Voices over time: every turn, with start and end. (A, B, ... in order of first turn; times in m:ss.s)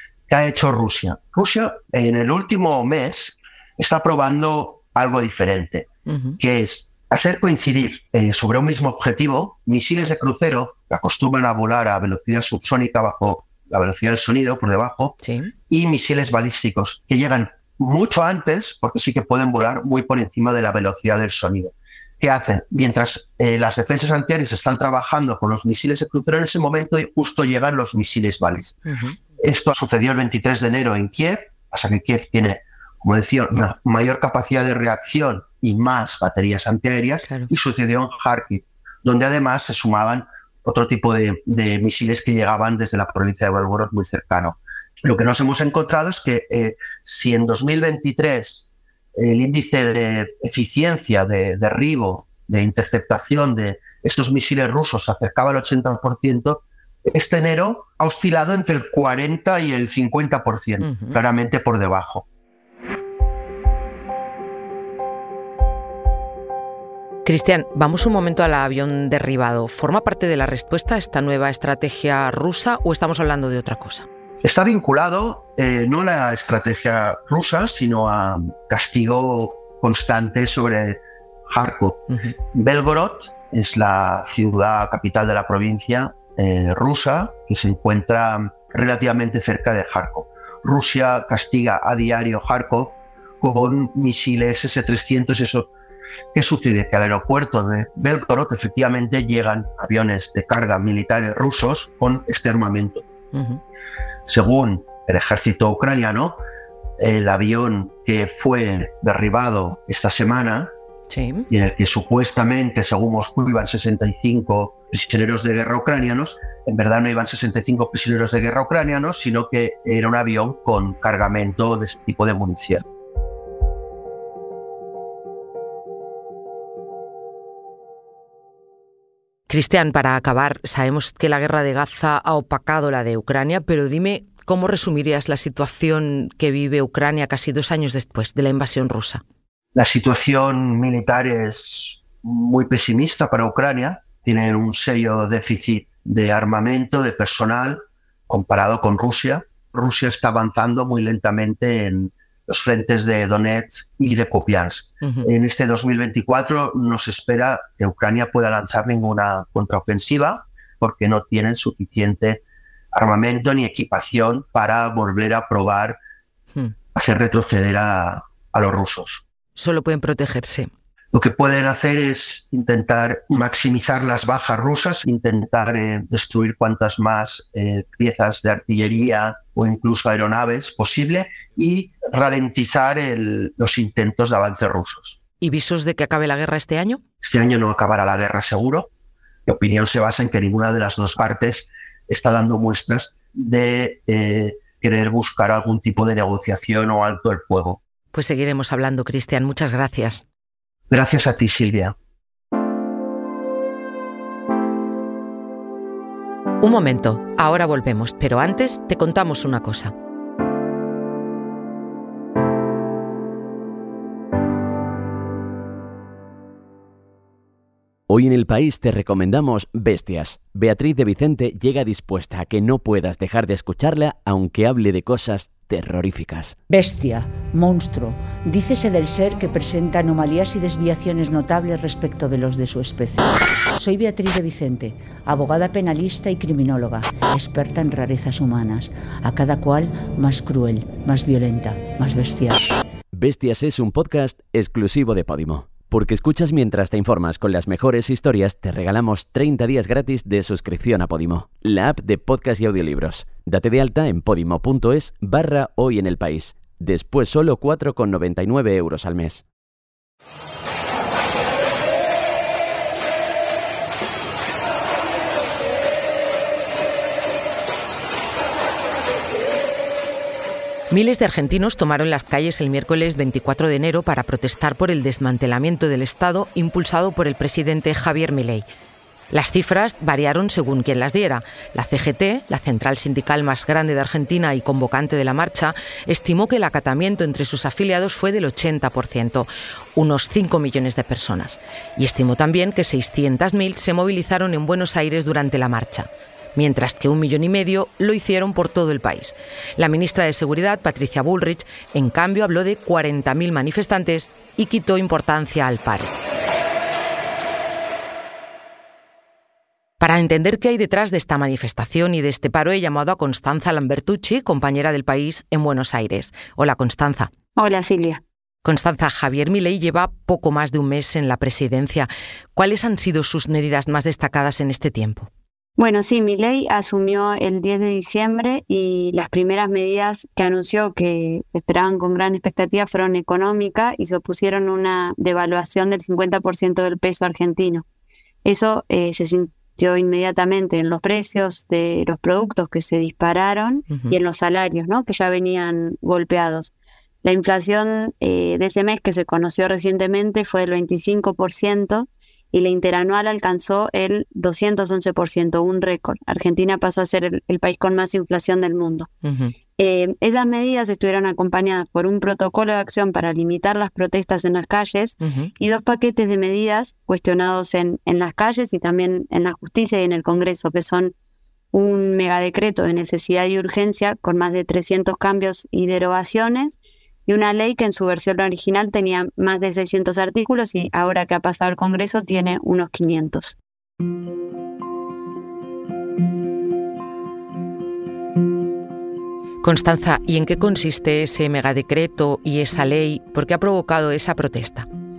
0:00.3-0:15.2 A
0:06.1-0:06.4 B
0:15.2-0:15.5 B
0:15.7-0:28.8 A
0:28.9-0:29.2 B
0:29.4-1:02.3 A
0:37.2-0:37.5 B
1:00.8-1:01.2 B
1:07.2-1:14.1 B
1:14.4-1:35.7 A
1:36.3-1:43.1 A
1:43.3-1:43.6 B
1:44.3-1:46.4 A
1:47.0-1:50.7 A
1:51.1-1:51.5 B
1:51.5-2:02.8 A
2:09.5-2:19.2 B
2:19.8-2:42.4 A
2:35.0-2:35.3 B
2:42.9-2:46.0 A
2:47.0-2:49.2 A
2:49.6-2:50.7 B
2:51.1-3:05.2 A
3:05.4-3:07.0 B
3:07.2-3:08.9 A
3:09.5-3:17.8 A
3:18.1-3:20.2 B
3:20.9-3:22.0 A
3:26.6-3:29.9 B
3:38.1-3:46.6 C
3:46.7-4:02.7 D
4:03.1-4:19.4 C
4:30.9-4:38.7 B
4:39.3-5:06.2 B
5:10.0-5:17.3 B
5:17.6-5:18.2 E
5:18.6-5:25.3 B
5:25.8-5:37.8 E
5:38.4-5:46.7 E
5:47.2-5:59.1 E
5:59.2-5:59.5 B
5:59.8-6:11.1 E
6:05.2-6:05.5 B
6:11.7-6:23.6 E
6:29.6-6:34.9 B